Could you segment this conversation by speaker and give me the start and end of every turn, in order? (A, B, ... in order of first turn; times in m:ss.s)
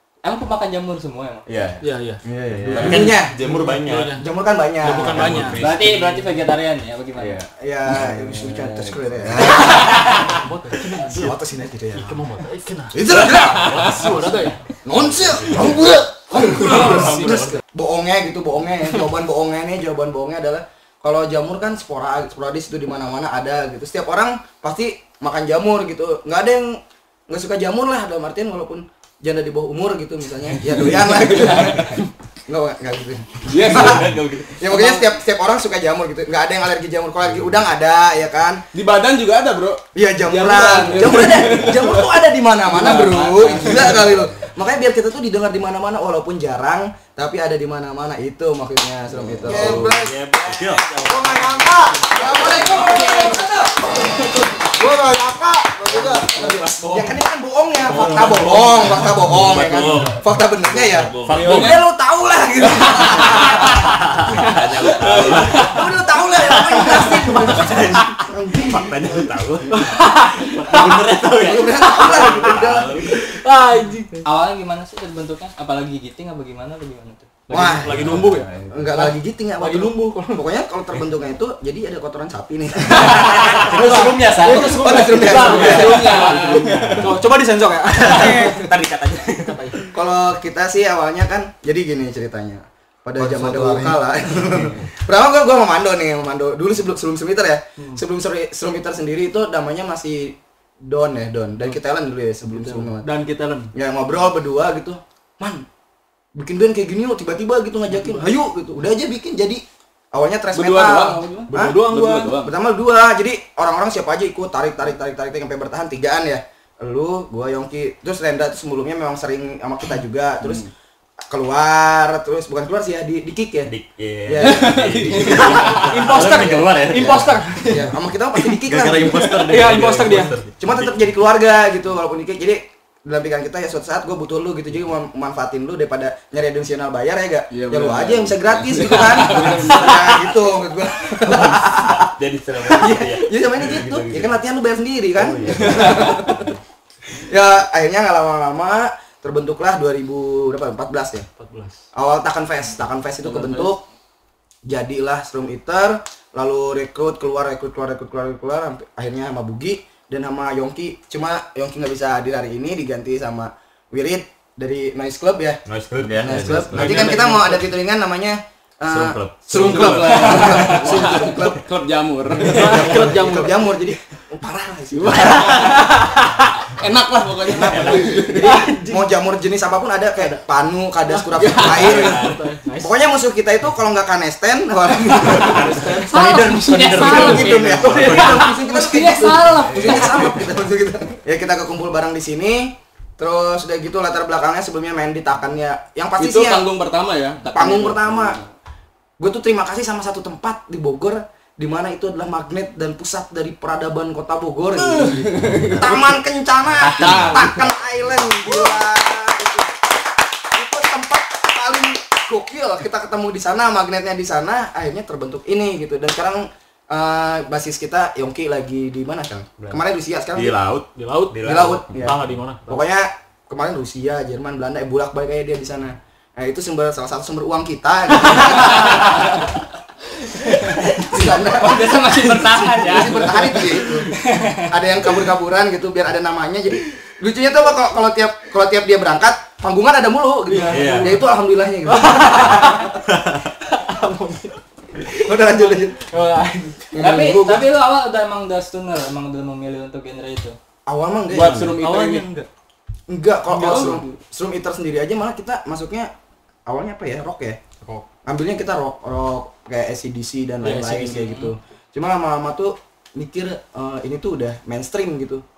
0:00.2-0:01.5 A
0:01.5-0:01.9 B
0:01.8-0:03.2 C
0:02.2-0:05.5 D
0:02.5-0:04.2 B
0:03.7-0:04.3 C
0:04.8-0:05.7 C
0:04.9-0:06.1 B
0:05.6-0:07.4 A
0:07.2-0:07.5 B
0:07.6-0:09.9 D
0:08.5-0:08.8 E
0:09.2-0:09.8 F
0:09.7-0:14.6 C
0:11.1-0:12.2 D
0:12.9-0:13.8 F
0:13.2-0:13.6 D
0:13.6-0:14.1 B
0:14.8-0:38.6 D
0:15.2-0:15.6 B
0:15.4-0:16.8 F
0:16.4-0:17.6 C
0:17.0-0:17.4 B
0:30.6-0:32.0 E
0:33.4-0:35.1 E
0:33.7-0:34.4 B
0:38.7-0:42.1 E
0:40.0-0:50.0 D
0:42.7-0:44.2 E
0:49.2-0:53.0 B
0:49.4-0:56.8 F
0:52.1-0:53.7 D
0:56.4-1:03.9 D
0:57.8-1:01.8 B
0:59.0-0:59.5 F
1:01.3-1:01.8 E
1:02.6-1:03.2 E
1:02.9-1:10.0 B
1:05.0-1:05.6 E
1:05.1-1:09.4 D
1:09.7-1:11.0 C
1:10.6-1:13.3 B
1:10.7-1:13.3 D
1:12.0-1:12.6 C
1:13.4-1:14.2 C
1:14.2-1:17.3 A
1:17.5-1:20.4 C
1:17.5-1:23.8 D
1:17.9-1:18.8 B
1:23.0-1:29.8 C
1:23.5-1:27.1 B
1:24.4-1:26.3 D
1:25.2-1:27.2 E
1:28.0-1:28.7 D
1:29.9-1:43.1 D
1:33.2-1:34.8 F
1:42.4-1:43.7 C
1:43.7-1:45.7 D
1:46.4-2:00.7 D
1:47.9-1:48.3 C
1:50.5-1:52.5 E
1:51.5-1:52.4 C
2:00.4-2:00.7 E
2:01.3-2:03.7 D
2:03.6-2:07.4 B
2:04.2-2:05.7 D
2:04.4-2:05.9 E
2:05.7-2:07.9 C
2:07.0-2:09.4 D
2:08.4-2:10.9 B
2:09.2-2:09.4 E
2:09.4-2:10.4 C
2:10.6-2:26.4 D
2:17.5-2:20.1 E
2:19.1-2:19.8 C
2:21.3-2:24.4 B
2:25.2-2:26.5 B
2:25.8-2:26.1 E
2:27.2-2:31.3 D
2:31.4-2:31.8 C
2:31.9-2:33.8 D
2:33.2-2:33.8 E
2:34.7-2:45.6 D
2:45.7-2:47.2 B
2:46.2-2:51.6 D
2:46.2-2:47.7 C
2:48.9-2:51.2 B
2:49.5-2:53.3 E
2:50.8-2:51.2 C
2:52.4-2:53.7 C
2:52.4-2:55.7 D
2:54.9-2:55.8 E
2:55.2-2:56.5 C
2:56.7-2:58.7 E
2:57.6-3:06.1 D
2:57.6-2:58.2 B
2:57.7-2:59.1 C
3:01.1-3:03.0 C
3:01.5-3:02.4 B
3:05.2-3:10.4 C
3:06.1-3:08.8 A
3:06.9-3:16.6 D
3:06.9-3:08.4 B
3:09.8-3:10.4 B
3:16.2-3:18.5 E
3:17.5-3:18.4 D
3:19.2-3:29.9 D
3:24.8-3:26.1 E
3:25.5-3:25.8 B
3:26.8-3:27.5 E
3:26.9-3:27.6 B
3:30.5-3:40.6 D
3:39.6-3:39.8 B
3:40.4-3:42.2 B
3:41.0-3:42.9 C
3:41.4-3:49.5 D
3:50.3-3:54.7 A
3:51.0-3:54.0 D
3:53.4-3:54.1 F
3:54.7-4:02.8 D
4:00.5-4:01.3 C
4:00.7-4:01.2 B
4:01.8-4:02.9 C
4:03.1-4:03.4 B
4:03.8-4:07.1 C
4:05.2-4:06.0 D
4:07.0-4:07.7 D
4:07.0-4:10.6 A
4:10.9-4:11.7 D
4:11.3-4:12.3 E
4:11.7-4:12.5 C
4:13.1-4:16.1 D
4:13.5-4:14.1 C
4:13.6-4:14.0 E
4:16.7-4:17.6 D
4:18.3-4:25.4 D
4:20.6-4:21.4 C